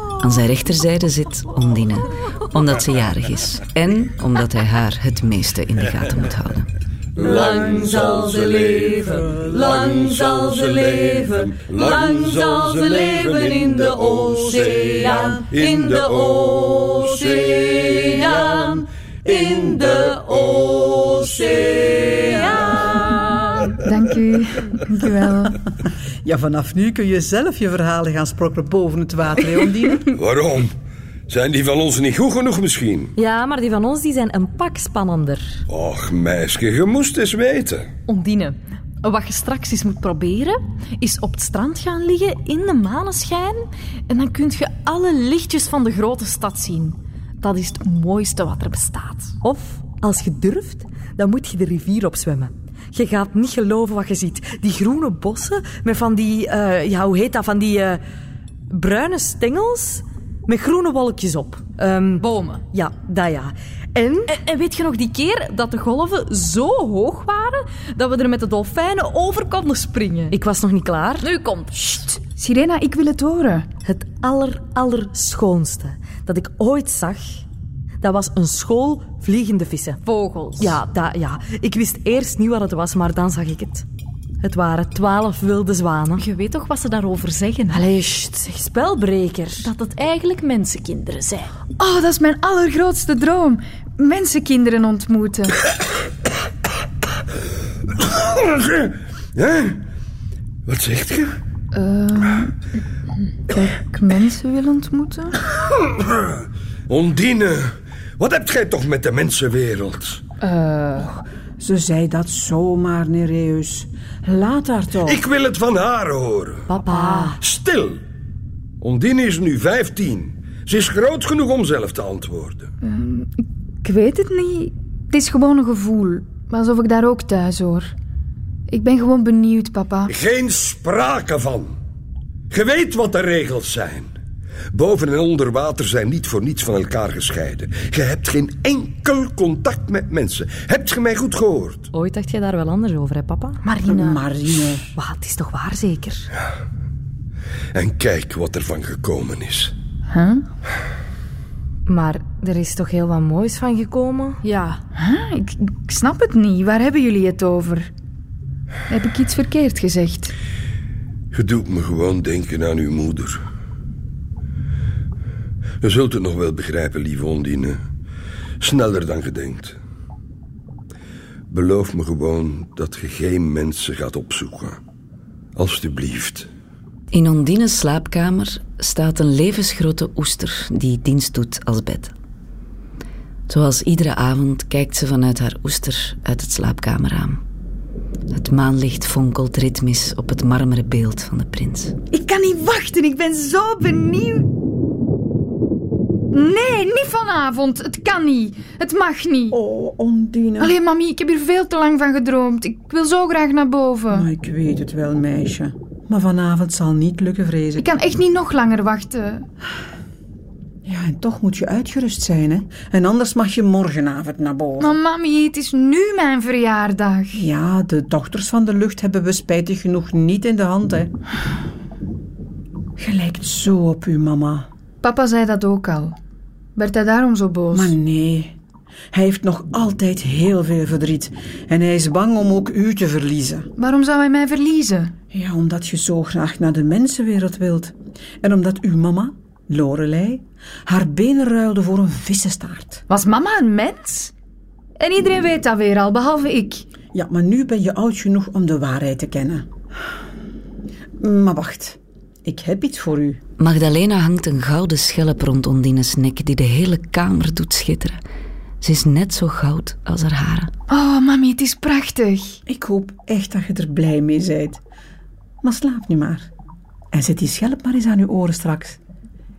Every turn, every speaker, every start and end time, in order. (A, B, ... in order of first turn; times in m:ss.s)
0:00.2-0:06.7 A
0:07.2-0:22.4 B
0:07.2-0:23.8 C
0:23.8-0:25.5 D
0:24.9-0:30.1 E
0:30.1-0:30.7 B
0:31.3-0:33.1 B
0:33.2-0:35.6 C
0:35.7-0:37.9 B
0:38.1-0:49.4 F
0:49.4-0:58.0 C
0:58.7-1:04.3 C
1:02.2-1:02.6 F
1:04.3-1:10.4 F
1:10.3-1:11.2 C
1:11.2-1:11.9 F
1:11.7-1:13.7 D
1:13.8-1:17.4 C
1:18.0-1:20.0 C
1:20.1-1:20.6 F
1:20.6-1:23.8 C
1:24.4-1:26.2 C
1:26.2-1:27.9 F
1:27.7-1:29.7 C
1:29.6-1:31.5 F
1:31.8-1:35.5 D
1:38.0-1:39.8 B
1:40.7-1:41.4 B
1:41.7-1:42.6 D
1:43.5-1:45.4 D
1:46.2-1:50.2 B
1:50.4-1:51.2 D
1:51.6-1:55.2 E
1:55.0-1:56.7 B
1:56.7-1:57.4 F
1:56.9-1:57.3 D
1:57.4-1:58.0 B
1:58.8-2:02.7 B
2:02.8-2:07.9 D
2:08.7-2:10.1 D
2:10.1-2:11.7 B
2:12.5-2:14.1 B
2:14.7-2:21.9 B
2:21.9-2:23.6 C
2:23.6-2:24.2 F
2:23.8-2:24.8 E
2:25.1-2:26.2 F
2:27.7-2:29.7 B
2:30.1-2:30.4 D
2:31.9-2:34.4 C
2:34.4-2:34.8 F
2:34.9-2:37.9 D
2:38.9-2:40.3 D
2:41.3-2:43.4 B
2:45.8-2:47.8 B
2:48.6-2:49.8 B
2:51.5-2:54.8 B
2:55.6-2:56.5 B
2:57.1-3:02.1 A
3:03.5-3:07.4 A
3:08.3-3:11.9 A
3:12.1-3:14.5 D
3:16.3-3:19.6 D
3:19.5-3:20.7 E
3:20.6-3:24.3 D
3:24.1-3:27.9 E
3:27.8-3:29.5 D
3:30.8-3:35.0 E
3:34.8-3:37.4 D
3:37.3-3:41.1 E
3:43.0-3:44.7 E
3:45.0-3:46.2 D
3:46.8-3:47.9 D
3:47.7-3:48.6 E
3:49.1-3:53.7 E
3:53.8-3:55.1 D
3:55.3-4:03.0 E
4:03.1-4:04.3 D
4:05.0-4:06.9 D
4:07.1-4:09.7 E
4:11.2-4:13.4 E
4:13.6-4:18.2 A
4:18.8-4:20.7 A
4:20.9-4:22.6 D
4:22.6-4:24.8 E
4:25.6-4:26.5 E
4:27.1-4:29.0 E